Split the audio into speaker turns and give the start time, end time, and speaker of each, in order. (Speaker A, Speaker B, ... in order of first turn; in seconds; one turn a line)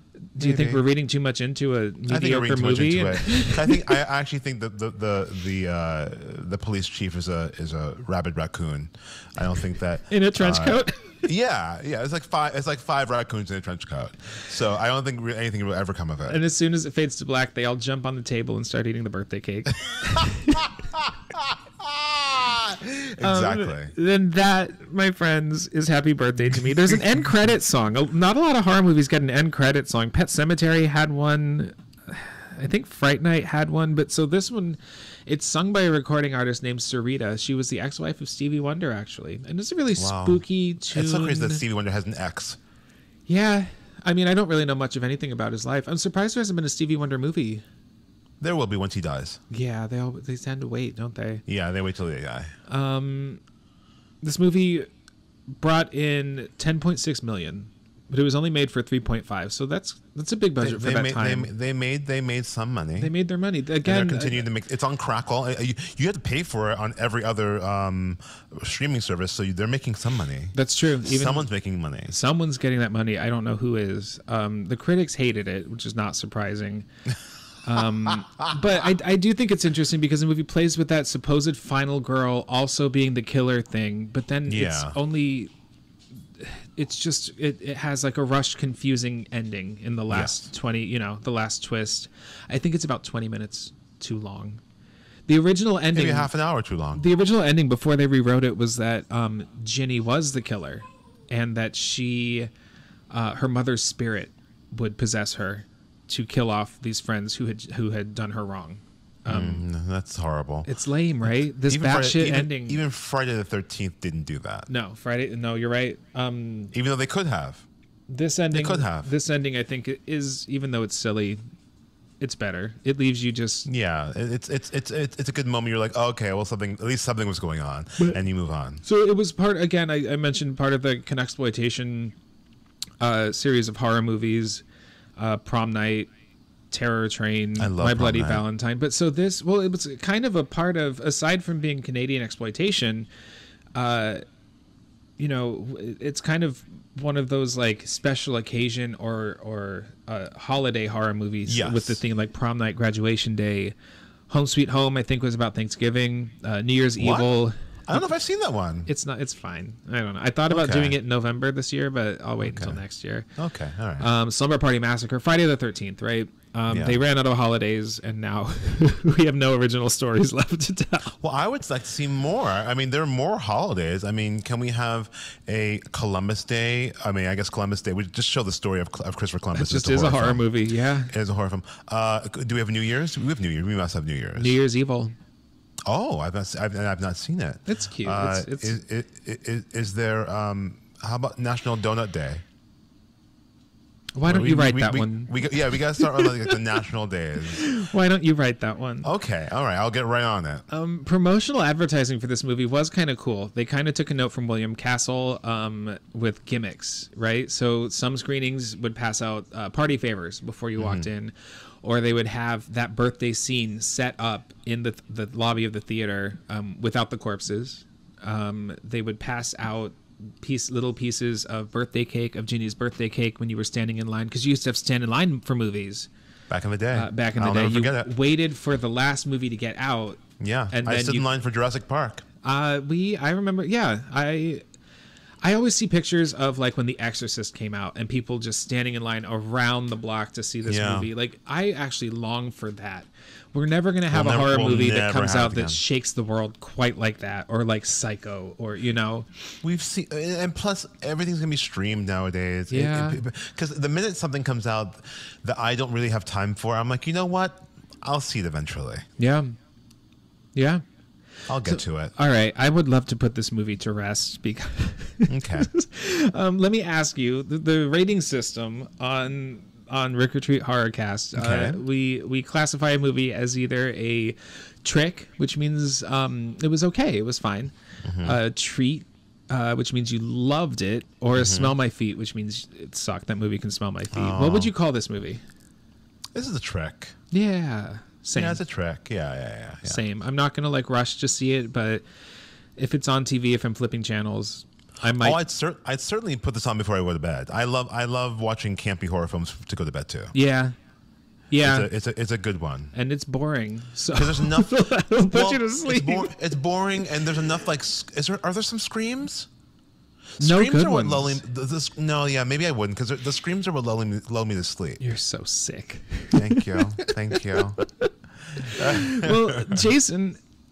Speaker A: 0.3-4.0
Speaker B: 0.4-0.8
Speaker B: 2.1-16.4
Speaker A: 10.1-11.2
Speaker A: 16.2-20.6
Speaker B: 20.0-23.9
Speaker A: 23.2-41.6
Speaker B: 40.0-42.6
Speaker A: 43.3-47.6
Speaker B: 48.4-49.4
Speaker A: 49.5-51.4
Speaker B: 51.5-52.5
Speaker A: 52.7-53.4
Speaker A: 54.2-54.9
Speaker A: 55.6-61.5
Speaker B: 60.6-63.1
Speaker A: 63.0-64.5
Speaker B: 63.8-72.1
Speaker A: 70.5-71.5
Speaker A: 72.1-76.9
Speaker A: 77.6-85.5
Speaker B: 84.5-85.0
Speaker A: 86.4-94.6
Speaker B: 90.1-90.5
Speaker A: 95.3-96.3
Speaker B: 95.9-97.0
Speaker A: 96.9-102.5
Speaker A: 103.1-109.6
Speaker B: 109.2-110.7
Speaker A: 110.7-112.8
Speaker B: 111.7-114.7
Speaker A: 114.7-116.7
Speaker B: 116.7-117.7
Speaker A: 118.1-121.4
Speaker B: 118.5-119.1
Speaker A: 122.2-123.7
Speaker B: 123.7-128.8
Speaker A: 128.8-132.1
Speaker A: 133.0-134.6
Speaker A: 135.2-136.1
Speaker A: 136.7-143.1
Speaker B: 137.6-138.4
Speaker A: 143.7-144.2
Speaker A: 145.2-153.7
Speaker B: 151.4-152.0
Speaker A: 154.3-158.1
Speaker B: 157.0-157.3
Speaker B: 157.9-158.9
Speaker A: 158.9-163.3
Speaker B: 160.5-161.0
Speaker B: 162.4-162.8
Speaker B: 163.4-164.1
Speaker A: 164.0-171.2
Speaker B: 166.7-167.0
Speaker B: 171.2-180.5
Speaker A: 179.5-181.1
Speaker B: 181.1-184.5
Speaker A: 184.3-185.1
Speaker B: 185.9-192.4
Speaker A: 187.7-188.8
Speaker A: 194.2-196.6
Speaker B: 194.2-197.7
Speaker A: 197.4-199.1
Speaker B: 199.0-200.6
Speaker A: 200.7-226.1
Speaker B: 210.8-211.1
Speaker B: 226.5-228.1
Speaker A: 226.9-231.3
Speaker B: 230.4-232.2
Speaker A: 232.4-234.6
Speaker A: 235.4-249.3
Speaker B: 240.7-241.1
Speaker B: 244.1-245.8
Speaker B: 249.6-259.0
Speaker A: 252.7-253.2
Speaker A: 259.2-259.6
Speaker A: 260.5-260.8
Speaker B: 261.5-262.1
Speaker A: 261.6-285.4
Speaker B: 265.3-265.7
Speaker B: 271.3-271.8
Speaker B: 278.0-278.4
Speaker B: 281.4-281.7
Speaker B: 284.1-284.7
Speaker B: 286.3-287.1
Speaker A: 287.3-288.6
Speaker B: 288.3-290.0
Speaker A: 289.8-292.0
Speaker A: 292.8-295.4
Speaker B: 295.1-300.3
Speaker A: 300.3-300.7
Speaker A: 301.5-301.9
Speaker B: 301.6-302.9
Speaker A: 302.9-306.3
Speaker B: 304.1-309.5
Speaker B: 310.4-315.0
Speaker A: 310.4-311.4
Speaker A: 315.0-320.4
Speaker B: 316.3-317.8
Speaker B: 318.6-319.8